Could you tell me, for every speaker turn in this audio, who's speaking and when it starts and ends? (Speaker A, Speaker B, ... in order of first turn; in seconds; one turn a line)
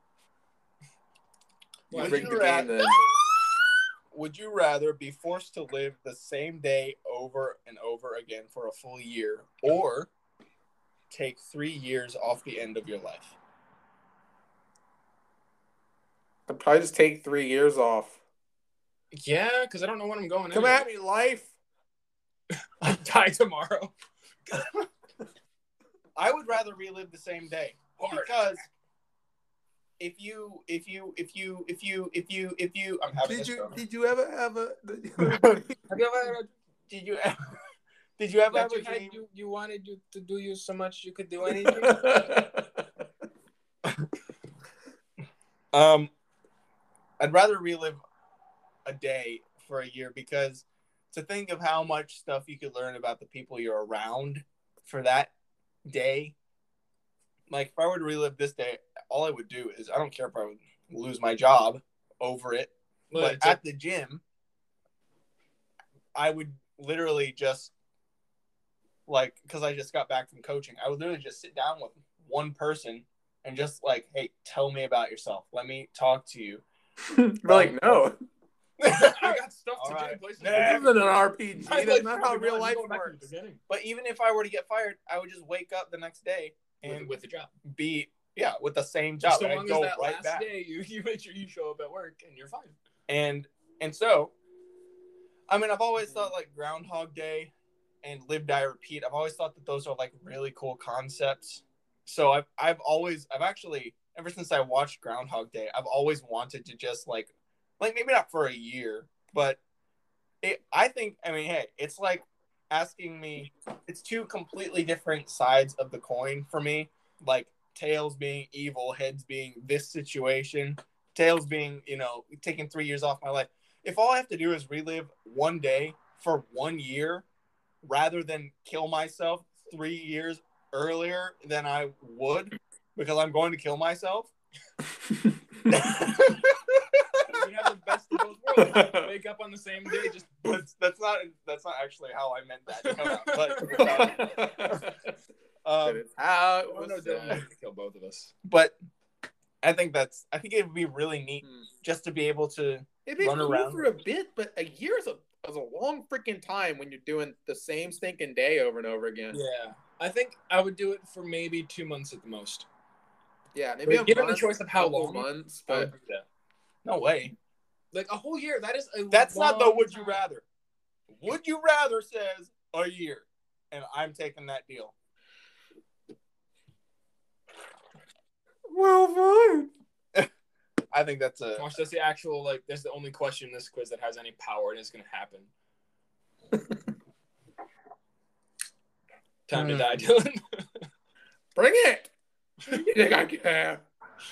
Speaker A: 1.9-2.7
Speaker B: 1.9-10.1
Speaker C: 1.9-3.0
Speaker B: 11.1-13.3
Speaker C: 16.5-18.2
Speaker A: 19.1-20.9
Speaker C: 20.5-21.5
Speaker A: 22.8-23.9
Speaker B: 26.1-28.6
Speaker A: 28.0-28.4
Speaker B: 30.0-33.8
Speaker C: 33.2-35.8
Speaker B: 35.2-35.6
Speaker A: 35.9-36.5
Speaker B: 36.9-37.4
Speaker B: 38.2-39.2
Speaker A: 38.5-42.3
Speaker C: 41.5-42.9
Speaker B: 45.7-46.1
Speaker B: 47.2-48.0
Speaker B: 48.8-55.3
Speaker B: 55.9-56.3
Speaker B: 57.5-64.2
Speaker A: 63.1-63.6
Speaker B: 66.1-67.7
Speaker B: 69.1-76.6
Speaker C: 77.0-78.2
Speaker B: 77.5-78.1
Speaker B: 78.8-80.9
Speaker A: 78.8-81.1
Speaker C: 80.4-83.3
Speaker A: 81.6-83.6
Speaker B: 83.7-87.1
Speaker A: 86.8-87.5
Speaker B: 87.6-90.5
Speaker A: 89.2-92.7
Speaker B: 93.1-94.3
Speaker B: 95.5-97.5
Speaker B: 98.0-109.6
Speaker B: 110.4-127.2
Speaker B: 127.8-134.3
Speaker C: 135.1-135.3
Speaker B: 135.7-136.4
Speaker A: 137.3-140.6
Speaker C: 138.6-139.1
Speaker B: 140.4-144.8
Speaker A: 142.8-144.2
Speaker C: 143.7-145.0
Speaker B: 145.6-146.0
Speaker C: 145.8-147.4
Speaker A: 146.7-148.3
Speaker B: 148.4-148.8
Speaker B: 149.6-153.9
Speaker C: 151.4-151.7
Speaker C: 153.1-159.4
Speaker A: 159.3-162.7
Speaker C: 163.5-165.9
Speaker A: 163.8-166.2
Speaker B: 166.8-167.3
Speaker A: 167.9-170.2
Speaker B: 169.1-170.4
Speaker B: 171.1-174.9
Speaker C: 178.7-179.7
Speaker B: 180.9-181.7
Speaker A: 181.6-185.5
Speaker A: 189.5-190.7
Speaker B: 189.5-190.1
Speaker C: 191.5-192.1
Speaker C: 192.7-193.8